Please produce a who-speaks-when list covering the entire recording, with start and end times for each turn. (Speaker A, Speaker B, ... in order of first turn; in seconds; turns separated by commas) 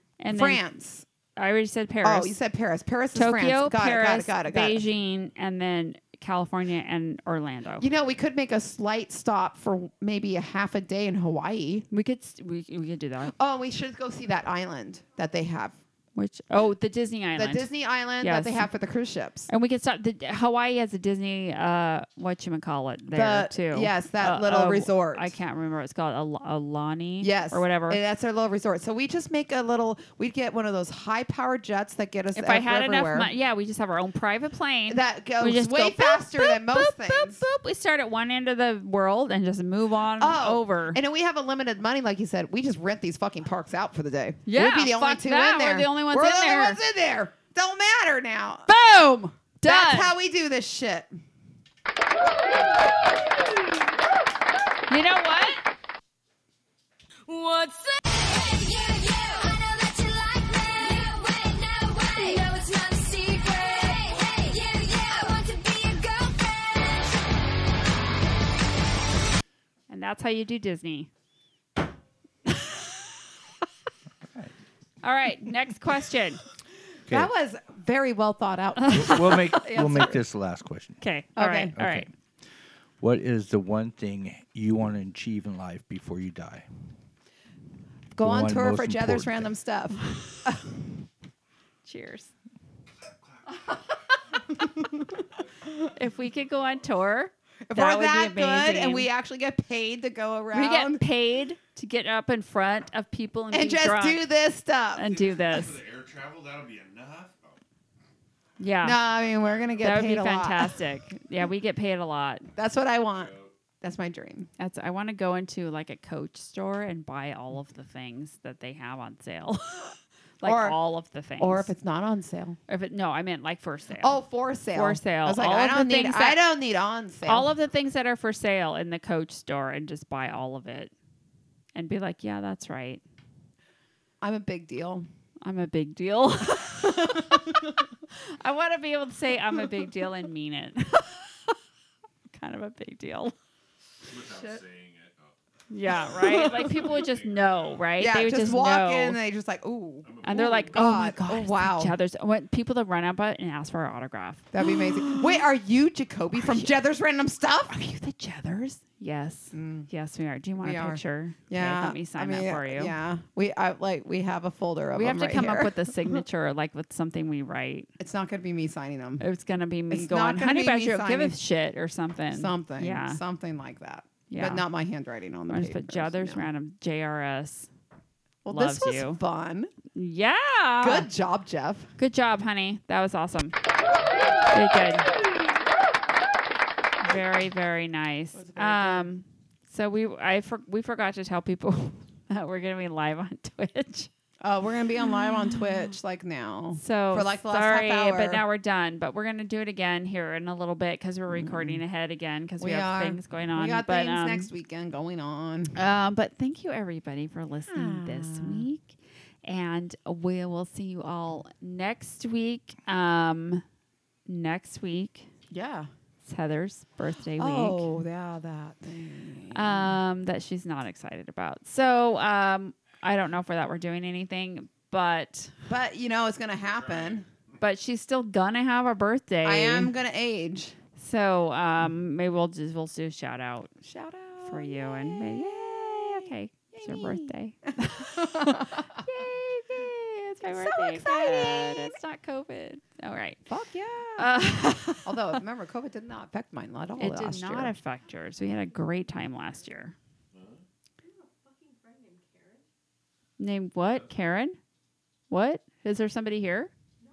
Speaker A: 0.2-0.6, Speaker B: 0.3-1.1, Speaker A: 1.4-2.3, Speaker B: 2.0-4.8, Speaker A: 3.1-7.9, Speaker B: 7.8-11.9, Speaker A: 11.9-13.3, Speaker B: 13.3-15.8, Speaker A: 16.1-18.7, Speaker B: 17.4-19.5, Speaker A: 19.5-28.0, Speaker B: 23.1-25.3, Speaker B: 27.2-33.3, Speaker A: 32.4-41.0, Speaker B: 34.9-37.4, Speaker B: 40.2-48.7, Speaker A: 44.5-46.8, Speaker A: 48.7-50.1, Speaker B: 49.6-51.1, Speaker A: 54.9-55.6, Speaker C: 57.3-67.3, Speaker A: 69.9-71.1, Speaker A: 72.5-72.9, Speaker D: 74.2-74.5, Speaker A: 75.0-76.4, Speaker B: 77.1-80.2, Speaker A: 78.9-79.2, Speaker D: 78.9-81.0, Speaker A: 81.0-82.1, Speaker B: 81.4-81.7, Speaker D: 81.8-82.1, Speaker D: 83.0-86.7, Speaker B: 88.2-90.7, Speaker D: 88.2-89.5, Speaker A: 91.8-92.3, Speaker E: 94.3-94.6, Speaker E: 95.2-97.0, Speaker A: 95.9-99.1, Speaker B: 97.7-101.0, Speaker A: 100.5-104.2, Speaker B: 103.5-105.1, Speaker A: 105.0-105.8, Speaker E: 105.0-107.6, Speaker A: 108.6-109.0, Speaker B: 108.8-110.8, Speaker E: 109.3-109.7, Speaker A: 109.8-112.5, Speaker B: 112.6-114.5, Speaker E: 113.2-113.5, Speaker A: 114.6-121.7, Speaker B: 120.4-120.8, Speaker B: 121.4-122.6, Speaker A: 122.7-126.4, Speaker B: 124.0-127.5, Speaker A: 127.3-130.9, Speaker A: 131.8-133.0, Speaker B: 134.2-135.1, Speaker A: 135.4-141.5, Speaker B: 136.8-137.6, Speaker A: 142.3-143.3, Speaker E: 144.1-145.3, Speaker B: 144.3-144.6, Speaker A: 145.7-149.2, Speaker B: 146.0-147.0, Speaker E: 146.2-147.9, Speaker B: 148.0-151.9, Speaker E: 150.0-150.8, Speaker A: 150.2-155.4, Speaker B: 154.5-157.7, Speaker A: 156.4-156.7, Speaker A: 157.7-162.9, Speaker B: 159.5-159.9, Speaker B: 160.6-166.2, Speaker A: 164.9-167.9, Speaker B: 168.0-169.2, Speaker A: 169.2-173.2, Speaker B: 169.9-171.4, Speaker B: 172.3-176.4, Speaker A: 174.3-174.7, Speaker A: 175.5-177.7, Speaker B: 178.4-179.7, Speaker A: 178.5-179.2, Speaker A: 179.9-181.1, Speaker B: 180.8-181.9, Speaker A: 182.0-183.5, Speaker A: 184.5-185.1, Speaker A: 187.0-194.1, Speaker B: 188.3-189.1, Speaker B: 194.4-198.4, Speaker A: 196.8-204.5, Speaker B: 201.3-201.8, Speaker B: 202.6-205.7, Speaker A: 205.8-213.6, Speaker B: 207.7-208.7, Speaker A: 214.3-215.3, Speaker B: 215.5-215.9, Speaker A: 216.2-217.9, Speaker B: 217.4-219.9, Speaker A: 219.5-225.5, Speaker B: 225.7-227.3, Speaker E: 226.7-227.5, Speaker A: 227.6-229.9, Speaker B: 229.4-230.8, Speaker A: 231.0-233.7, Speaker B: 233.8-239.0, Speaker A: 234.4-243.4, Speaker B: 240.4-242.0, Speaker B: 243.5-244.3, Speaker A: 244.2-245.3, Speaker B: 245.0-247.7, Speaker A: 247.0-249.9, Speaker E: 250.3-250.7, Speaker C: 251.8-252.2, Speaker A: 253.4-254.6, Speaker A: 255.3-256.7